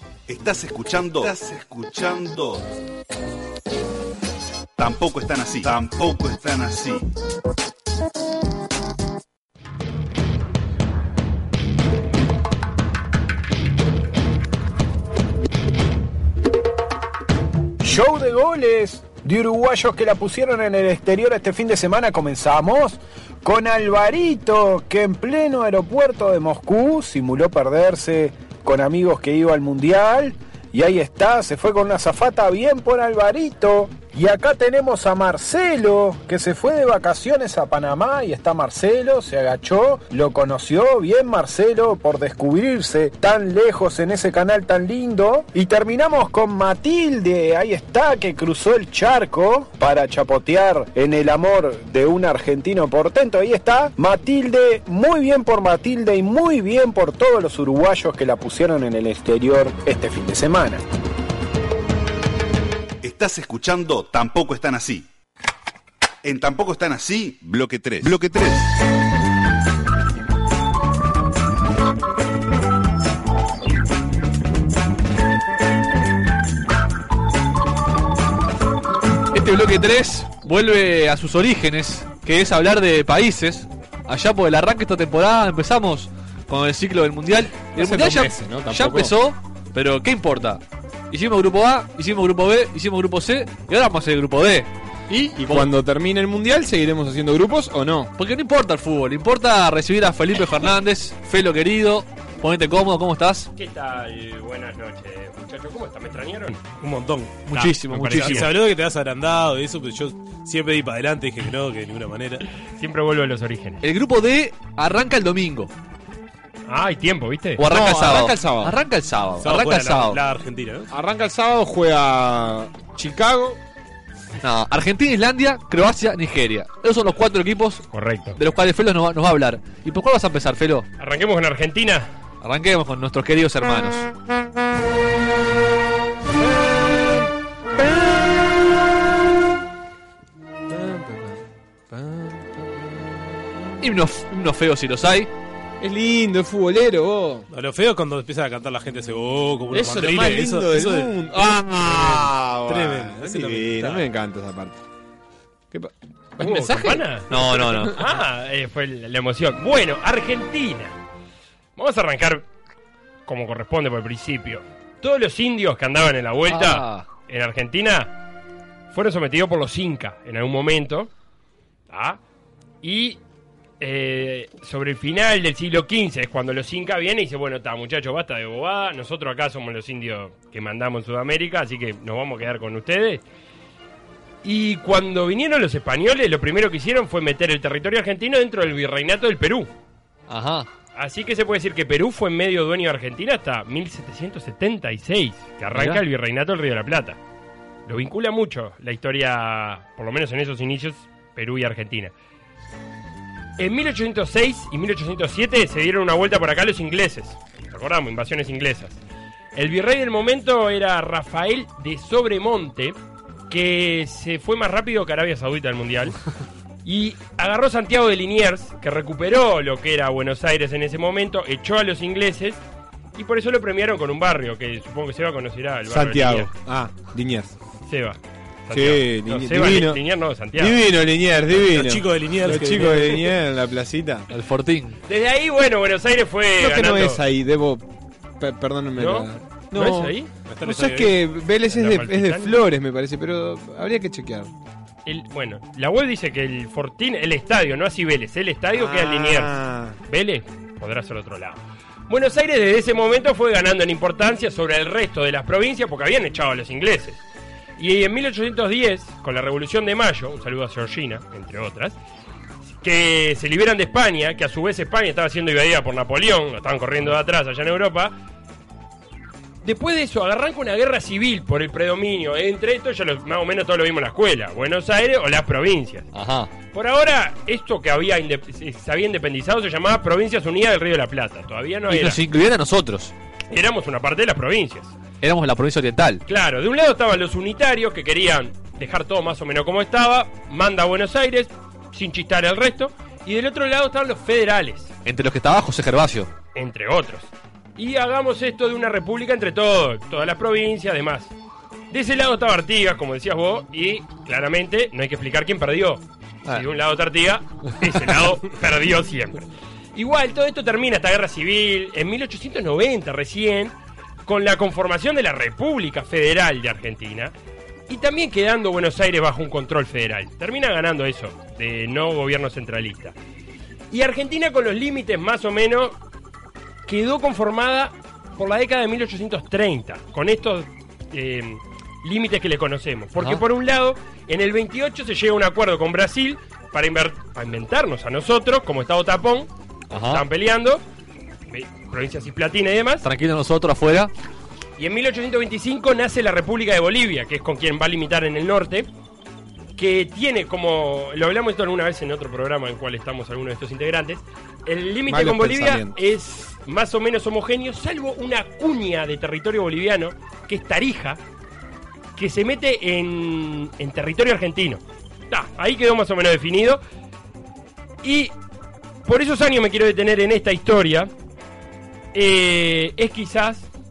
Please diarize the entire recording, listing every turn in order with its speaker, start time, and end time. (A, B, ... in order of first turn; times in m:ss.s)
0:00.3-0:02.6 A
0:04.8-0:07.1 A
0:17.8-1:00.8 B
1:03.0-1:05.1 A
1:06.2-1:08.7 A
1:19.3-1:34.7 C
1:27.8-1:29.1 D
1:35.1-1:38.1 D
1:35.4-1:35.7 C
1:38.2-1:43.5 C
1:43.6-1:46.8 E
1:46.7-1:52.4 F
1:47.5-1:48.5 C
1:47.5-1:48.5 E
1:52.8-1:53.8 E
1:53.8-1:55.7 C
1:56.7-1:57.6 E
1:57.6-2:00.2 C
1:57.6-1:58.7 D
1:59.4-2:00.9 F
2:00.9-2:03.6 D
2:04.4-2:10.9 C
2:07.9-2:08.4 E
2:11.0-2:12.1 E
2:12.4-2:14.1 C
2:20.7-2:21.4 D
2:21.9-2:22.8 D
2:23.8-2:25.3 C
2:25.8-2:27.5 D
2:27.5-2:34.1 F
2:29.7-2:34.8 D
2:35.7-2:37.9 D
2:36.4-2:37.3 E
2:36.4-2:38.0 C
2:37.9-2:40.9 E
2:41.8-2:42.4 E
2:43.2-2:48.1 E
2:46.5-2:47.1 C
2:48.9-2:51.1 E
2:51.9-2:52.2 E
2:52.8-2:53.2 E
2:53.8-3:03.2 E
3:04.4-3:09.7 E
3:10.3-3:10.7 C
3:11.0-3:17.2 E
3:15.7-3:16.0 C
3:17.9-3:22.1 E
3:23.6-3:29.0 E
3:29.5-3:33.0 E
3:33.5-3:36.1 E
3:36.8-3:42.6 E
3:43.1-3:46.5 E
3:45.9-3:47.5 D
3:47.9-3:50.8 E
3:48.7-3:50.0 D
3:50.5-3:54.3 D
3:51.6-3:53.2 F
3:54.3-3:55.0 C
3:55.1-3:57.2 E
3:56.6-3:57.8 D
3:58.4-4:04.5 D
3:59.0-4:00.3 E
4:00.5-4:01.2 F
4:01.7-4:02.5 E
4:05.0-4:09.5 E
4:08.7-4:10.0 D
4:10.1-4:17.2 E
4:17.8-4:22.0 E
4:22.8-4:28.1 E
4:29.6-4:36.1 E
4:36.1-4:36.5 C
4:36.6-4:42.2 E
4:41.9-4:43.1 C
4:43.5-4:45.0 E
4:45.2-4:46.2 C
4:46.3-4:54.9 E
4:55.0-4:56.3 C
4:56.5-5:01.3 E
5:01.9-5:13.7 E
5:14.2-5:17.3 E
5:17.9-5:23.1 E
5:23.9-5:26.0 E
5:26.8-5:39.5 E
5:33.2-5:33.4 C
5:39.9-5:40.2 C
5:40.0-5:40.8 E
5:41.5-5:43.0 E
5:43.0-5:44.1 C
5:44.8-5:48.9 E
5:49.8-6:01.2 E
5:55.1-5:56.0 D
6:02.2-6:06.8 E
6:08.0-6:08.3 E
6:09.0-6:11.1 E
6:12.1-6:13.7 E